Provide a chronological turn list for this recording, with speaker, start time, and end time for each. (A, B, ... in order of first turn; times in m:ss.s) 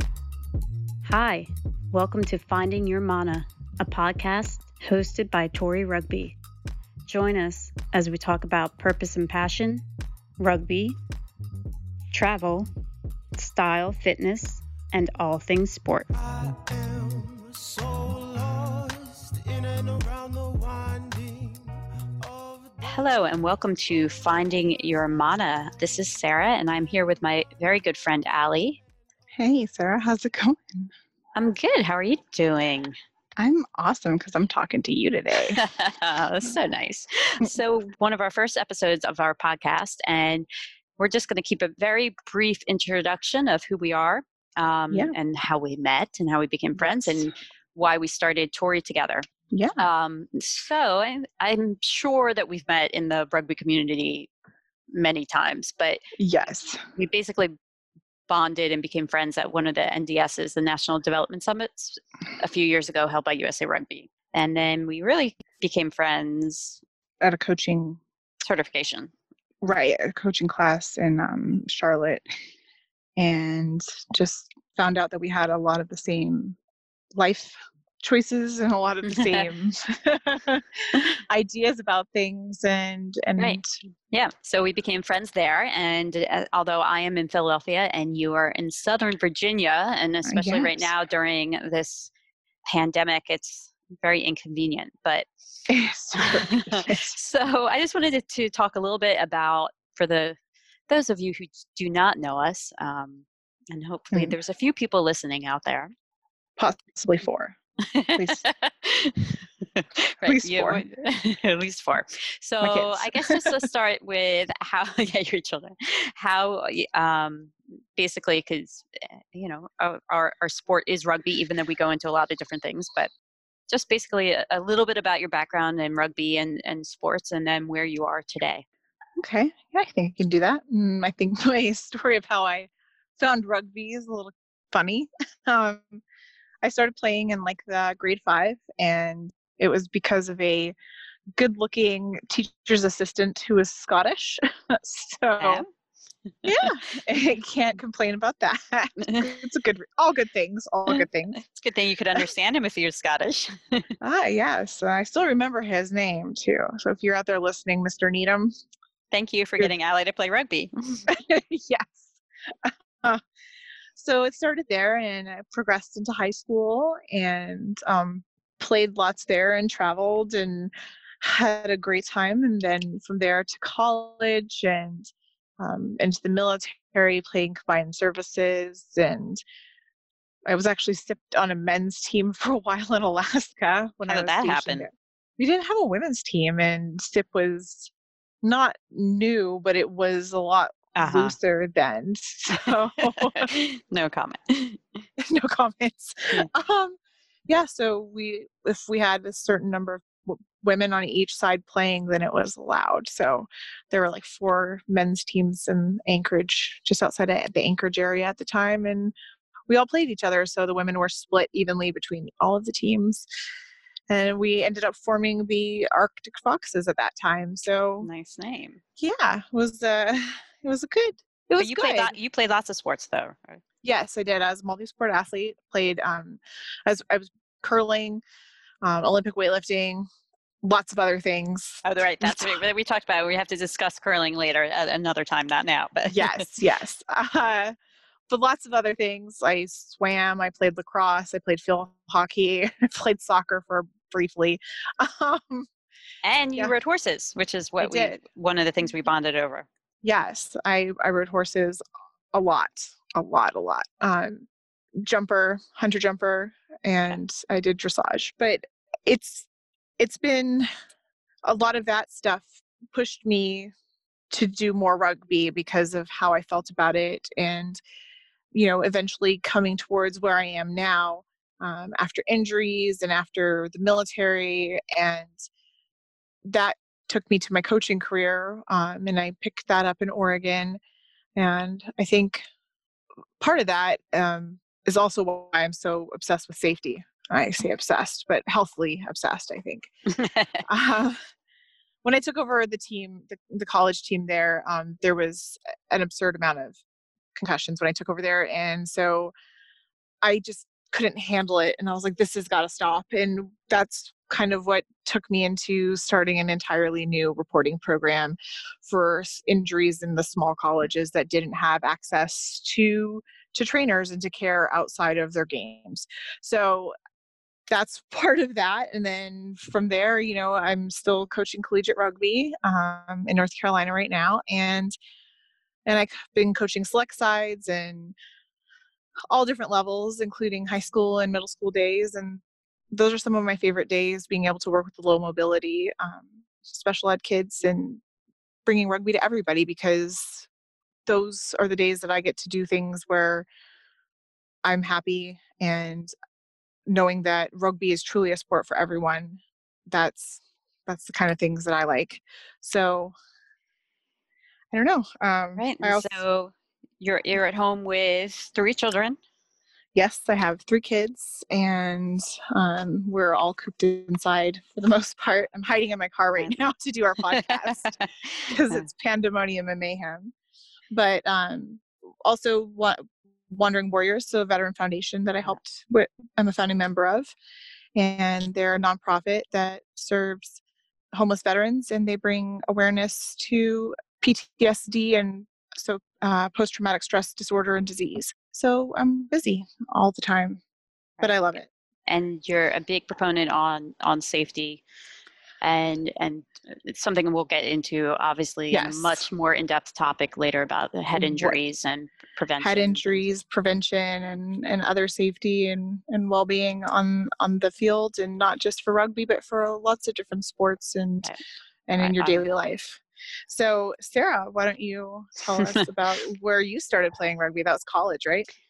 0:01.0-0:06.4 A
0:07.0-0:09.8 A
0:10.4-0:11.0 A
0:12.1-0:12.7 A
0:13.4-0:16.1 A
0:16.2-0:22.8 B
0:22.8-0:28.8 A
0:29.3-0:30.9 C
0:31.4-0:32.9 A
0:33.4-0:35.6 C
0:35.6-0:40.5 A
0:41.0-0:49.2 A
0:46.8-0:47.3 C
0:49.5-0:49.8 C
0:49.8-0:54.3 A
0:54.9-0:56.0 A
0:56.2-0:56.8 C
0:56.9-0:57.5 A
0:58.3-1:06.8 A
1:07.2-1:08.0 C
1:08.4-1:09.1 A
1:09.6-1:12.2 C
1:13.2-1:16.6 C
1:17.2-1:20.6 C
1:19.0-1:19.5 A
1:21.3-1:23.6 C
1:23.4-1:32.1 A
1:30.2-1:30.9 C
1:32.7-1:35.3 A
1:35.7-1:37.1 C
1:36.2-1:40.4 A
1:40.9-1:45.9 A
1:46.6-1:47.5 C
1:47.9-2:03.1 A
1:48.1-1:48.4 C
1:50.2-1:50.8 C
1:52.6-1:53.6 C
2:03.7-2:08.6 A
2:09.2-2:16.0 C
2:16.6-2:20.7 C
2:21.4-2:25.6 C
2:25.4-2:25.7 A
2:26.3-2:26.7 A
2:26.4-2:31.4 C
2:29.0-2:29.4 A
2:30.9-2:33.9 A
2:34.0-2:38.5 C
2:39.1-2:41.1 A
2:41.1-2:43.2 C
2:44.0-2:55.1 C
2:55.6-2:59.4 C
3:00.5-3:07.9 C
3:04.1-3:04.9 A
3:08.4-3:13.5 C
3:11.0-3:11.4 A
3:12.5-3:14.8 A
3:15.2-3:17.0 C
3:17.5-3:29.1 C
3:29.7-3:33.2 C
3:34.1-3:38.1 C
3:38.0-3:38.8 A
3:39.0-3:42.1 C
3:41.6-3:43.6 A
3:43.8-3:48.2 C
3:48.8-3:50.0 C
3:50.6-3:52.6 C
3:51.8-3:56.5 A
3:56.1-3:57.7 C
3:58.3-4:05.7 C
4:06.2-4:09.7 A
4:07.8-4:08.2 C
4:10.0-4:11.8 C
4:12.3-4:14.5 C
4:15.0-4:19.5 C
4:20.0-4:20.7 C
4:21.5-4:23.7 C
4:24.3-4:27.8 C
4:28.5-4:35.3 C
4:36.5-4:40.8 C
4:41.4-4:42.4 C
4:43.4-4:49.9 C
4:50.1-4:50.6 A
4:50.7-4:51.2 C
4:52.0-4:56.8 C
4:57.4-4:59.3 C
5:00.2-5:16.9 C
5:17.7-5:24.9 C
5:25.9-5:28.1 C
5:29.3-5:32.4 C
5:32.9-5:38.0 C
5:38.6-5:40.5 C
5:41.1-5:43.4 C
5:44.6-5:46.1 C
5:46.9-5:53.1 C
5:54.7-5:56.2 C
5:55.6-5:59.2 A
5:59.9-6:07.9 C
6:07.2-6:08.9 A
6:08.5-6:10.3 C
6:10.9-6:17.3 C
6:18.0-6:20.6 C
6:21.1-6:30.6 C
6:31.2-6:31.6 A
6:31.2-6:31.7 C
6:32.1-6:34.8 A
6:35.6-6:43.2 A
6:38.7-6:39.2 C
6:41.1-6:41.6 C
6:42.6-6:51.3 C
6:51.9-6:58.5 C
6:52.0-6:52.5 A
6:55.5-6:55.9 A